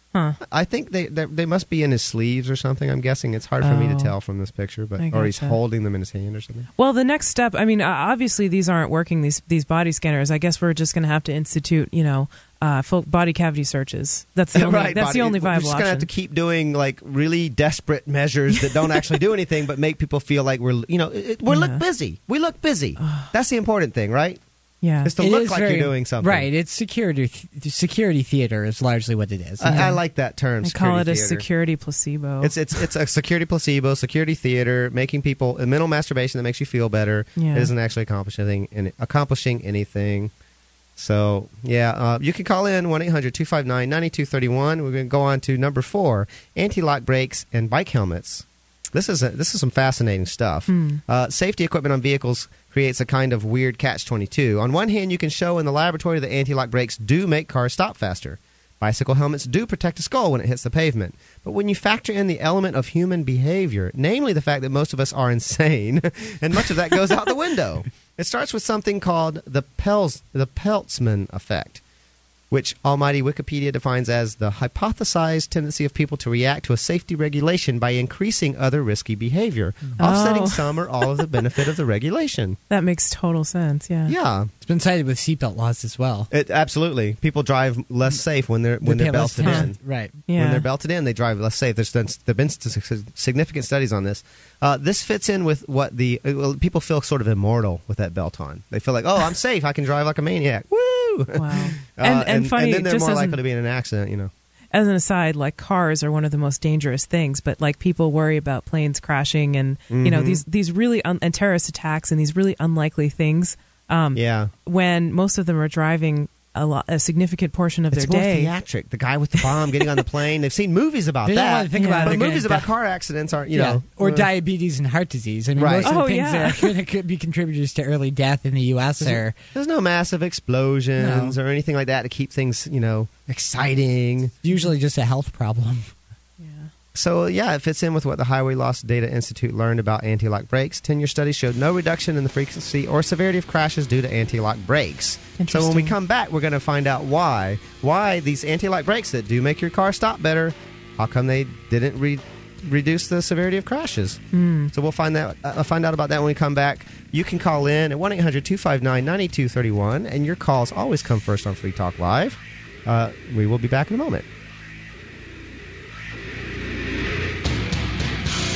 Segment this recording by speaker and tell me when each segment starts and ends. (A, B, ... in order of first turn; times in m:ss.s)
0:00.4-0:06.7 A
0:03.6-0:04.1 B
0:05.0-0:05.6 B
0:06.8-0:16.1 B
0:14.5-0:24.4 A
0:21.5-0:21.8 B
0:23.0-0:23.3 B
0:24.8-0:25.1 B
0:25.0-0:26.5 A
0:25.2-0:29.8 C
0:29.6-0:31.4 A
0:29.7-0:30.0 B
0:30.6-0:32.8 B
0:32.4-0:40.3 A
0:37.4-0:37.7 B
0:41.0-1:11.8 A
0:50.7-0:51.0 B
1:12.5-1:22.6 A
1:20.0-1:21.3 B
1:22.7-1:24.1 B
1:24.1-1:24.5 A
1:24.6-1:26.3 C
1:26.3-1:44.3 A
1:28.8-1:30.2 C
1:30.3-1:30.6 B
1:41.3-1:43.4 B
1:44.7-1:58.5 B
1:49.9-1:50.4 A
1:54.1-1:54.5 A
1:57.9-2:04.3 A
2:01.2-2:02.7 C
2:01.7-2:02.2 B
2:03.5-2:09.4 C
2:05.6-2:05.9 A
2:05.8-2:06.7 B
2:09.0-2:14.3 A
2:11.0-2:11.4 C
2:14.4-2:15.9 C
2:16.4-2:16.7 B
2:16.9-2:44.2 A
2:25.4-2:25.9 B
2:34.3-2:34.7 B